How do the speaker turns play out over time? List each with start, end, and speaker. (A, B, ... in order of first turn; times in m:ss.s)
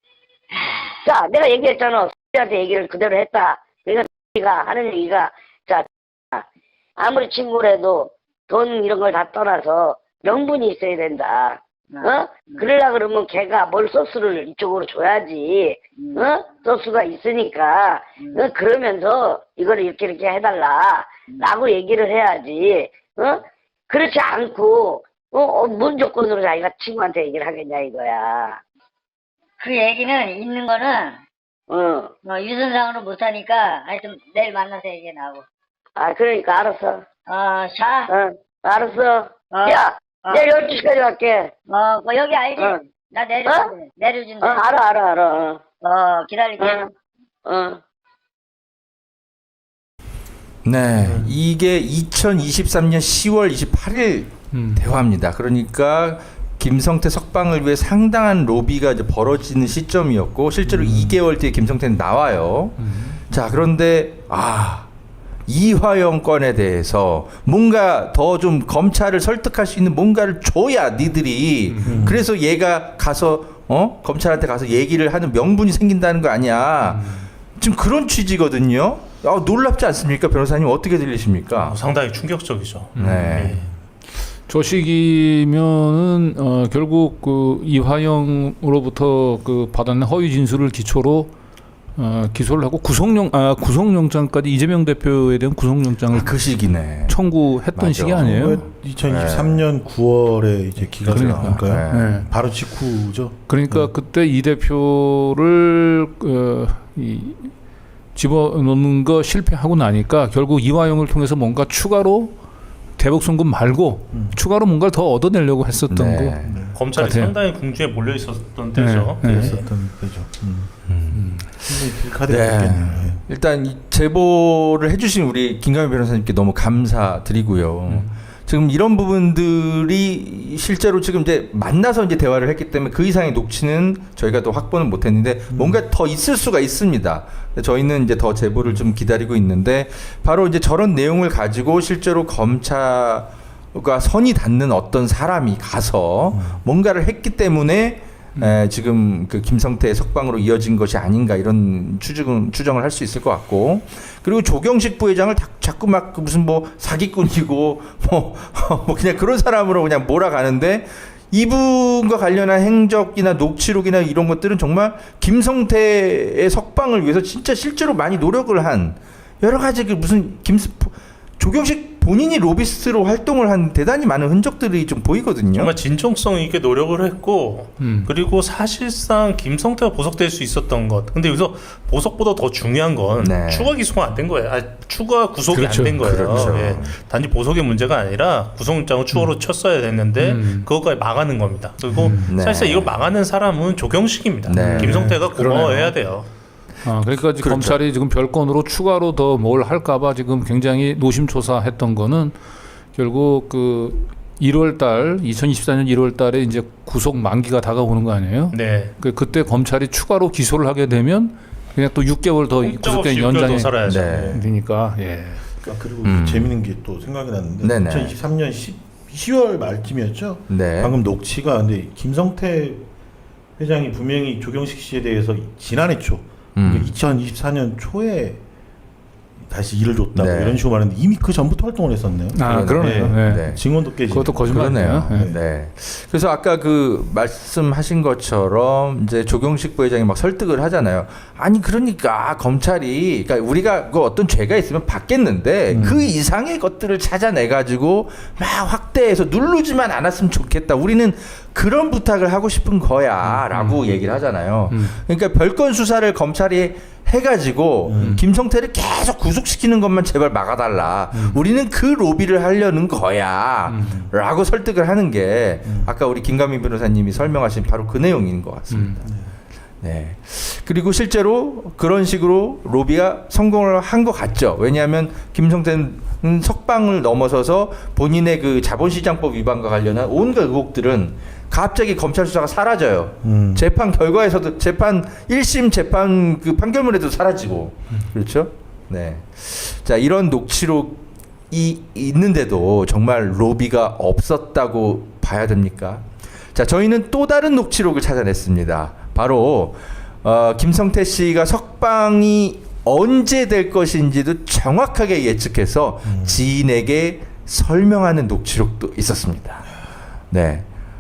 0:00.5-0:00.9 A
0:01.0-0:06.4 B
0:07.0-0:28.6 B
0:11.9-0:12.6 A
0:16.0-0:16.3 A
0:18.2-0:18.5 A
0:29.6-0:31.2 A
0:31.7-0:32.1 B
0:32.2-0:35.4 A
0:36.0-0:37.0 B
0:37.3-0:38.1 A
0:38.1-0:41.5 B
0:39.5-0:40.5 A
0:41.7-0:44.6 A
0:44.4-0:45.6 B
0:45.8-0:46.8 A
0:46.6-0:46.9 B
0:47.5-0:47.8 B
0:50.6-1:04.9 C
0:51.0-0:51.4 D
0:54.5-0:54.8 E
1:00.7-1:01.2 E
1:02.8-1:03.2 E
1:05.5-1:21.8 C
1:11.7-1:12.2 E
1:11.8-1:12.2 D
1:16.8-1:17.3 E
1:21.7-1:23.6 F
1:23.0-1:23.6 C
1:23.0-1:23.6 E
1:24.4-1:31.3 E
1:32.0-1:38.6 E
1:36.1-1:39.7 C
1:38.2-1:43.9 D
1:41.0-1:42.3 C
1:41.0-1:42.3 E
1:43.5-1:47.6 E
1:48.2-1:52.4 E
1:53.0-1:57.4 E
1:54.1-1:54.4 D
1:55.9-1:56.6 C
1:56.4-1:56.8 D
1:56.8-1:59.6 F
1:58.8-1:59.6 E
1:59.2-2:00.9 D
2:00.9-2:01.6 C
2:01.1-2:01.5 E
2:01.6-2:03.2 D
2:02.3-2:55.7 C
2:15.5-2:15.8 D
2:26.3-2:26.6 D
2:55.6-3:16.3 F
2:57.8-2:58.1 E
3:03.2-3:03.7 C
3:05.5-3:06.5 E
3:06.0-3:07.0 C
3:10.2-3:10.7 E
3:11.9-3:12.3 E
3:12.3-3:13.0 C
3:14.5-3:15.0 C
3:14.6-3:16.0 E
3:16.8-3:22.4 E
3:17.4-3:17.8 C
3:22.9-3:35.6 E
3:28.5-3:28.9 F
3:32.6-3:34.1 F
3:33.8-3:34.4 C
3:34.1-3:34.5 D
3:35.6-3:42.9 D
3:36.0-3:36.6 C
3:37.6-3:38.2 C
3:40.5-3:41.0 C
3:43.6-3:48.4 D
3:46.6-3:46.9 C
3:49.4-3:55.4 D
3:50.2-3:50.6 C
3:52.3-3:55.3 E
3:52.4-3:53.6 C
3:54.4-4:29.1 C
4:05.7-4:06.1 D
4:13.5-4:13.8 E
4:14.7-4:15.0 E
4:17.8-4:18.2 D
4:18.0-4:18.2 E
4:21.1-4:21.4 E
4:23.7-4:24.1 E
4:25.7-4:25.9 D
4:28.7-4:29.0 E
4:29.0-4:29.3 D
4:29.8-5:09.7 C
4:43.2-4:43.6 D
5:06.1-5:06.4 D
5:10.3-5:10.7 C